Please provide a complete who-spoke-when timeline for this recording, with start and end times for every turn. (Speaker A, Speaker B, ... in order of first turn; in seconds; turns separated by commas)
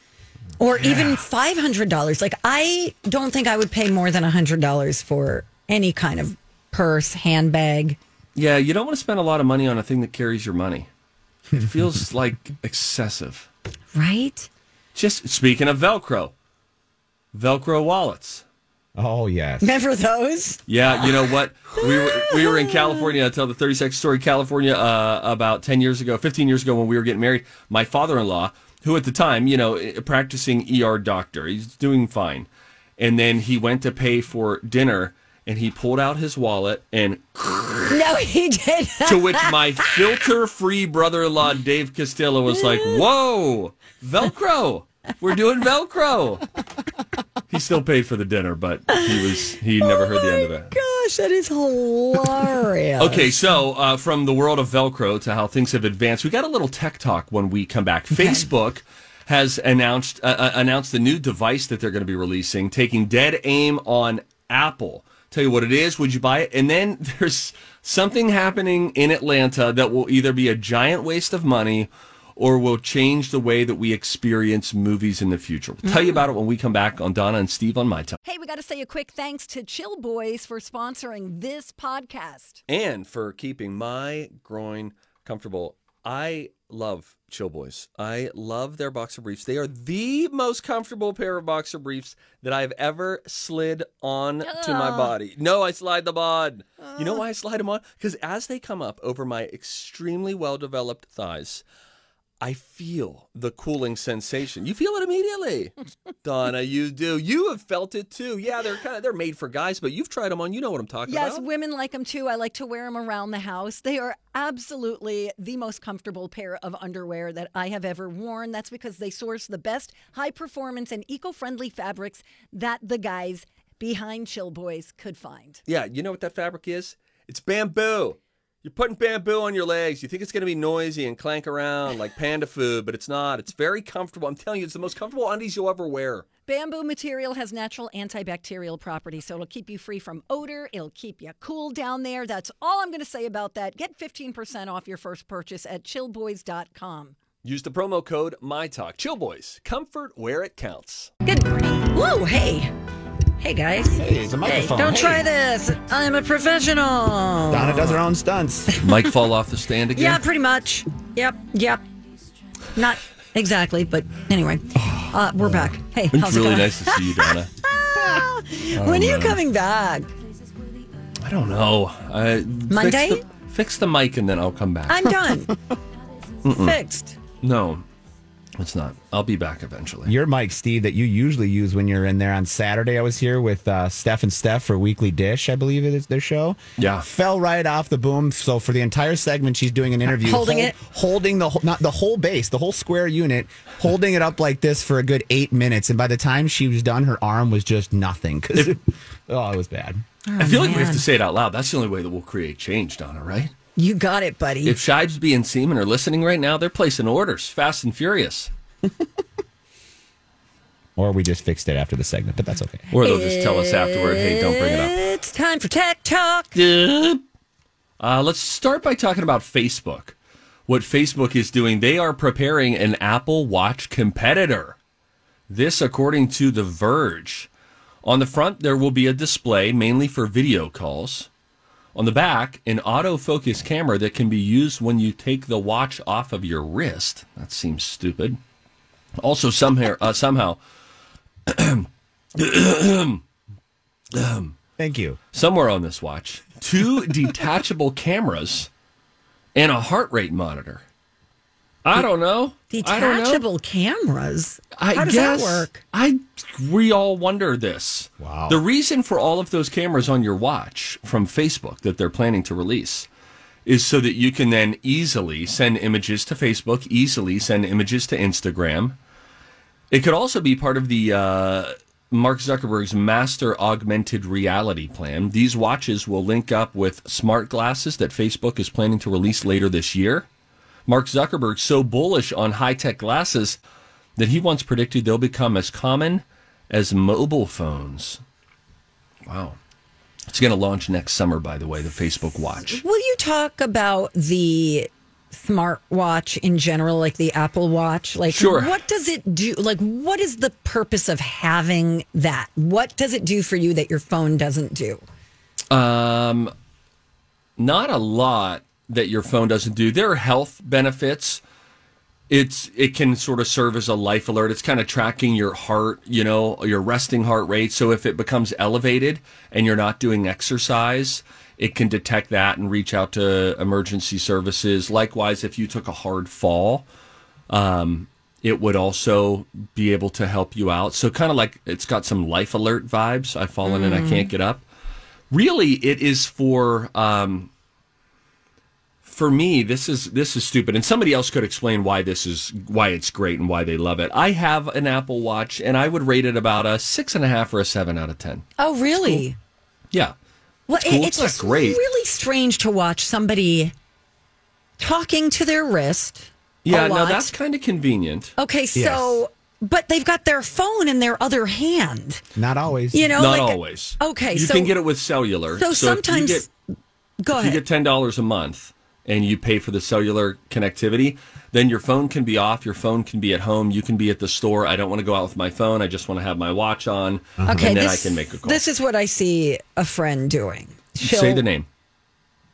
Speaker A: 0.6-8.0, Speaker B: 8.3-10.9, Speaker B: 11.5-13.5, Speaker C: 11.5-11.8, Speaker A: 13.9-14.5, Speaker B: 14.9-16.3, Speaker B: 17.3-18.4, Speaker C: 18.9-19.8, Speaker A: 19.6-20.6, Speaker B: 20.7-38.1, Speaker A: 21.8-22.9, Speaker A: 37.9-40.2, Speaker B: 39.0-46.5, Speaker A: 42.5-43.0, Speaker B: 47.5-50.7, Speaker A: 48.9-53.4, Speaker B: 53.0-78.2, Speaker A: 78.2-82.6, Speaker B: 82.7-101.6, Speaker A: 94.4-95.1, Speaker B: 102.4-111.4, Speaker A: 111.1-125.6, Speaker B: 125.7-136.3, Speaker A: 136.5-147.1, Speaker B: 147.4-151.1, Speaker A: 151.2-152.7, Speaker A: 153.4-158.0, Speaker C: 153.9-155.3, Speaker C: 157.5-158.7, Speaker B: 158.8-160.2, Speaker A: 159.9-161.8, Speaker A: 162.7-170.1, Speaker C: 164.7-165.7, Speaker B: 166.1-167.5, Speaker B: 168.7-169.4, Speaker B: 171.2-175.1, Speaker A: 172.7-173.2, Speaker A: 174.9-175.5, Speaker B: 176.4-176.8, Speaker A: 176.4-177.2, Speaker B: 177.4-177.8, Speaker B: 178.6-180.1, Speaker C: 180.1-200.0, Speaker B: 186.8-187.1, Speaker A: 190.2-190.8, Speaker A: 200.2-201.0, Speaker B: 200.4-203.5, Speaker A: 203.8-204.8, Speaker B: 204.6-208.5, Speaker C: 210.9-212.8, Speaker B: 212.9-215.0, Speaker A: 213.0-216.6, Speaker B: 216.5-217.2, Speaker B: 218.0-220.1, Speaker B: 220.7-224.8, Speaker B: 225.5-227.5, Speaker B: 228.0-231.3, Speaker B: 231.9-238.4, Speaker B: 239.2-240.6, Speaker B: 241.5-243.2, Speaker B: 244.1-244.5, Speaker C: 244.8-245.2, Speaker B: 245.3-248.7, Speaker B: 249.5-250.8, Speaker B: 251.8-253.4, Speaker A: 252.7-255.8, Speaker B: 254.8-263.1, Speaker C: 258.2-258.6, Speaker B: 263.6-269.0, Speaker B: 269.9-280.3, Speaker B: 280.9-283.6, Speaker B: 284.2-288.2, Speaker B: 289.2-289.6, Speaker B: 290.3-292.8, Speaker A: 292.6-305.0, Speaker B: 298.3-298.8, Speaker B: 305.7-306.5, Speaker B: 307.6-311.4, Speaker B: 312.3-326.8, Speaker B: 327.5-334.6, Speaker A: 333.6-334.3, Speaker B: 335.3-337.5, Speaker B: 339.0-348.4, Speaker A: 348.6-349.4, Speaker A: 350.7-353.7, Speaker B: 350.7-351.8, Speaker A: 354.8-357.3, Speaker B: 356.6-358.3, Speaker A: 358.4-362.2, Speaker C: 358.7-359.2, Speaker C: 362.3-363.1, Speaker A: 362.9-364.7, Speaker B: 363.1-366.5, Speaker A: 365.6-366.5, Speaker A: 367.2-367.6, Speaker B: 367.3-378.6, Speaker C: 377.4-377.7, Speaker A: 377.4-381.4, Speaker B: 381.0-381.7